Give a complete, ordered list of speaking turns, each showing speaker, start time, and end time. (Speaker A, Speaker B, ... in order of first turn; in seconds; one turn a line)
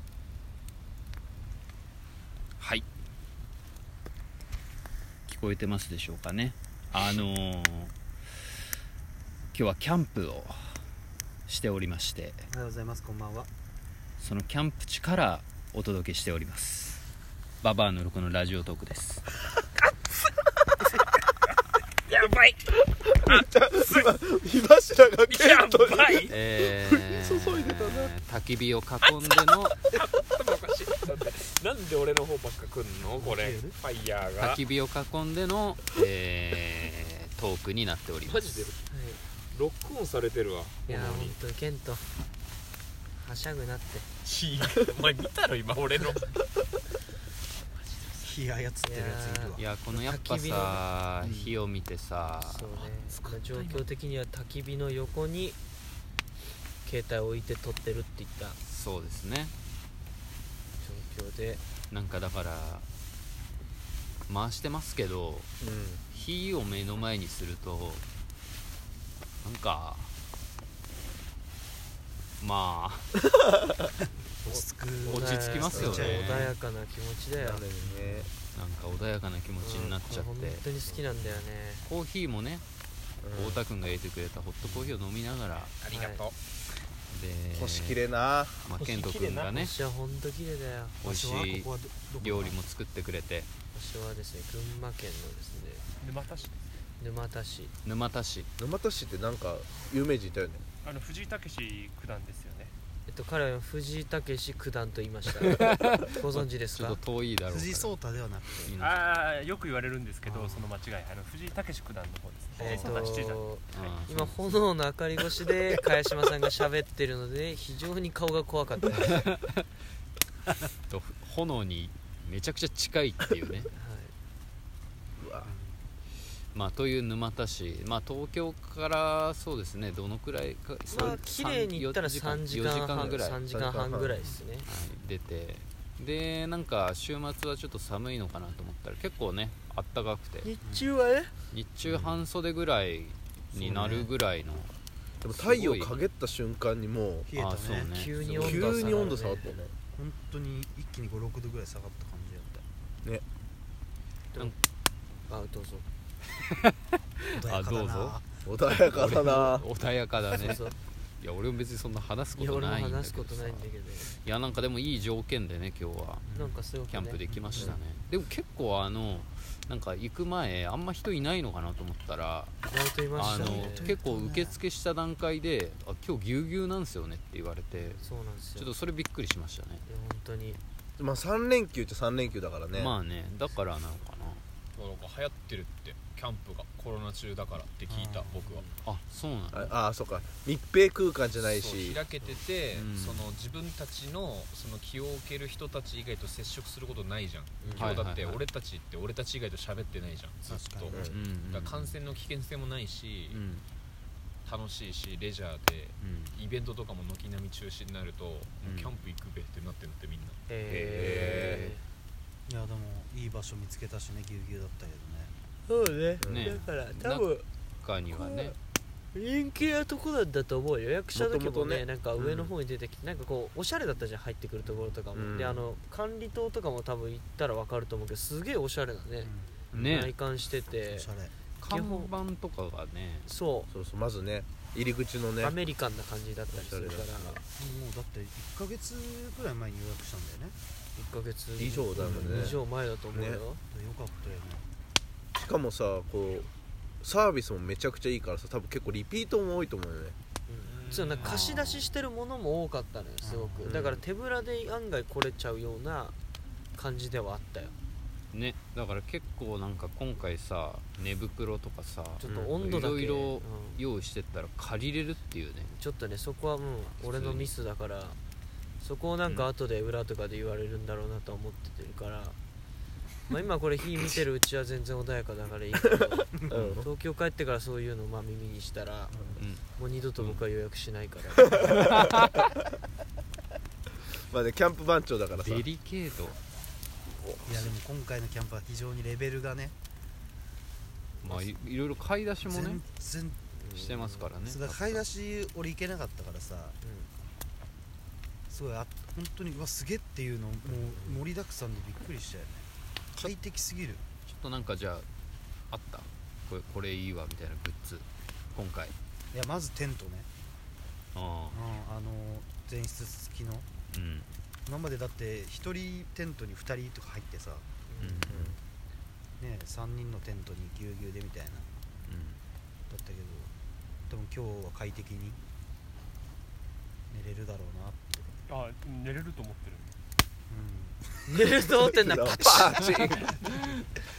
Speaker A: 2.6-2.8
Speaker A: 5.3-7.9
Speaker A: 9.5-10.8
Speaker A: 11.5-12.4
Speaker B: 12.5-13.5
Speaker A: 14.2-17.0
Speaker A: 17.6-19.2
Speaker C: 22.1-24.1
Speaker D: 23.1-28.1
Speaker C: 25.2-26.4
Speaker A: 26.3-29.8
Speaker C: 29.8-34.6
Speaker B: 33.2-33.8
Speaker A: 34.4-38.4
Speaker C: 38.2-38.9
Speaker E: 38.9-39.2
Speaker C: 39.4-41.4
Speaker E: 40.9-42.1
Speaker E: 43.1-44.1
Speaker C: 44.2-46.4
Speaker C: 47.6-48.4
Speaker B: 48.2-49.7
Speaker E: 48.8-50.8
Speaker A: 49.6-52.9
Speaker B: 51.2-51.5
Speaker E: 52.4-55.6
Speaker C: 53.1-53.8
Speaker E: 56.8-58.6
Speaker A: 58.6-59.5
Speaker E: 60.8-61.6
Speaker A: 61.9-62.9
Speaker A: 64.3-65.5
Speaker D: 65.6-66.0
Speaker A: 66.1-68.0
Speaker A: 69.4-70.1
Speaker A: 72.4-73.1
Speaker B: 74.4-76.5
Speaker D: 74.4-76.2
Speaker A: 75.1-76.5
Speaker E: 75.1-77.6
Speaker D: 77.4-78.3
Speaker B: 77.8-78.3
Speaker A: 78.5-80.6
Speaker E: 79.6-81.9
Speaker A: 81.8-82.6
Speaker D: 83.2-83.6
Speaker A: 83.3-85.8
Speaker B: 84.6-84.9
Speaker C: 85.7-86.4
Speaker E: 85.9-86.3
Speaker A: 87.1-88.0
Speaker D: 87.5-88.7
Speaker A: 88.6-89.7
Speaker C: 88.8-89.7
Speaker E: 89.6-91.0
Speaker A: 91.0-91.7
Speaker B: 91.0-92.6
Speaker A: 92.2-93.5
Speaker E: 93.7-95.9
Speaker F: 96.0-96.6
Speaker E: 97.0-97.7
Speaker A: 97.8-98.5
Speaker D: 98.6-100.6
Speaker F: 100.8-102.7
Speaker E: 103.1-107.0
Speaker A: 105.5-108.0
Speaker B: 107.5-108.7
Speaker A: 108.6-109.0
Speaker F: 108.8-113.3
Speaker E: 112.6-119.2
Speaker B: 112.7-113.2
Speaker A: 113.7-114.4
Speaker A: 118.9-119.7
Speaker A: 120.9-123.7
Speaker E: 123.7-124.1
Speaker D: 125.2-125.5
Speaker B: 125.4-125.8
Speaker A: 126.5-133.4
Speaker E: 130.9-134.7
Speaker D: 132.9-134.3
Speaker A: 134.6-140.5
Speaker E: 140.4-141.3
Speaker B: 140.6-140.9
Speaker A: 141.5-144.7
Speaker D: 141.8-142.2
Speaker D: 143.6-144.0
Speaker B: 143.6-144.1
Speaker D: 145.2-147.3
Speaker A: 145.3-145.9
Speaker B: 147.2-147.9
Speaker A: 147.3-148.8
Speaker E: 147.9-149.6
Speaker D: 148.2-149.7
Speaker B: 149.9-152.6
Speaker E: 155.3-155.8
Speaker A: 156.5-158.2
Speaker B: 157.3-158.4
Speaker D: 158.4-159.7
Speaker A: 158.8-160.6
Speaker E: 160.4-160.8
Speaker A: 161.2-166.3
Speaker E: 162.3-164.2
Speaker B: 166.3-166.6
Speaker E: 166.3-167.2
Speaker A: 166.8-172.5
Speaker B: 167.3-167.8
Speaker E: 172.6-174.0
Speaker A: 173.1-177.9
Speaker B: 173.2-174.6
Speaker B: 177.8-178.1
Speaker E: 177.9-178.7
Speaker A: 178.6-179.8
Speaker E: 179.8-180.6
Speaker D: 181.0-182.9
Speaker A: 182.7-184.4
Speaker C: 184.8-188.7
Speaker B: 187.9-188.5
Speaker A: 188.8-189.7
Speaker D: 189.5-192.0
Speaker C: 191.4-203.4
Speaker A: 192.7-193.3
Speaker D: 197.6-198.0
Speaker A: 197.7-198.4
Speaker B: 200.4-201.0
Speaker D: 200.9-201.2
Speaker A: 201.1-201.9
Speaker A: 203.3-203.6
Speaker C: 204.4-210.4
Speaker A: 206.0-206.3
Speaker A: 208.6-208.9
Speaker E: 210.5-211.8
Speaker A: 210.7-211.7
Speaker D: 210.9-211.7
Speaker B: 212.5-215.3
Speaker E: 215.7-217.4
Speaker D: 216.2-216.5
Speaker A: 216.3-217.3
Speaker A: 217.8-218.6
Speaker E: 218.2-218.4
Speaker E: 219.1-229.3
Speaker D: 221.1-222.5
Speaker B: 224.7-225.0
Speaker D: 225.1-225.6
Speaker B: 229.2-229.9
Speaker A: 229.7-230.1
Speaker E: 229.8-231.1
Speaker B: 230.9-231.3
Speaker A: 231.6-233.3
Speaker E: 231.7-232.2
Speaker E: 233.2-233.7
Speaker D: 233.7-235.6
Speaker E: 235.4-237.4
Speaker D: 236.5-237.4
Speaker B: 237.5-240.6
Speaker E: 240.9-243.6
Speaker D: 241.6-243.4
Speaker B: 242.1-242.6
Speaker B: 243.7-244.7
Speaker D: 245.3-246.5
Speaker D: 247.0-250.2
Speaker E: 250.5-256.1
Speaker C: 250.7-251.4
Speaker A: 251.2-251.9
Speaker B: 253.2-253.6
Speaker D: 253.6-254.0
Speaker E: 256.7-257.7
Speaker A: 258.3-265.7
Speaker E: 262.2-263.8
Speaker E: 265.7-268.2
Speaker A: 267.0-267.5
Speaker E: 268.8-272.4
Speaker E: 273.3-281.9
Speaker D: 276.5-276.9
Speaker B: 279.1-279.4
Speaker A: 279.4-279.6
Speaker A: 281.5-282.3
Speaker D: 284.2-285.6
Speaker A: 285.3-286.4
Speaker D: 287.2-287.6
Speaker B: 287.4-289.7
Speaker A: 291.2-292.8
Speaker B: 292.4-293.4
Speaker E: 293.6-294.3
Speaker A: 293.7-295.0
Speaker B: 294.4-296.8
Speaker E: 296.8-297.1
Speaker B: 298.5-304.0
Speaker A: 304.2-305.1
Speaker A: 305.7-308.9
Speaker B: 309.3-310.3
Speaker A: 311.1-311.6
Speaker B: 311.5-313.7
Speaker A: 313.9-314.3
Speaker B: 314.6-317.6
Speaker E: 317.9-318.2
Speaker A: 318.0-318.5
Speaker D: 318.3-318.6
Speaker B: 319.4-321.7
Speaker A: 322.1-322.4
Speaker B: 322.9-323.5
Speaker B: 324.1-325.4
Speaker B: 327.1-328.4
Speaker F: 328.5-329.9
Speaker B: 330.5-331.0
Speaker E: 331.3-332.8
Speaker D: 331.8-333.4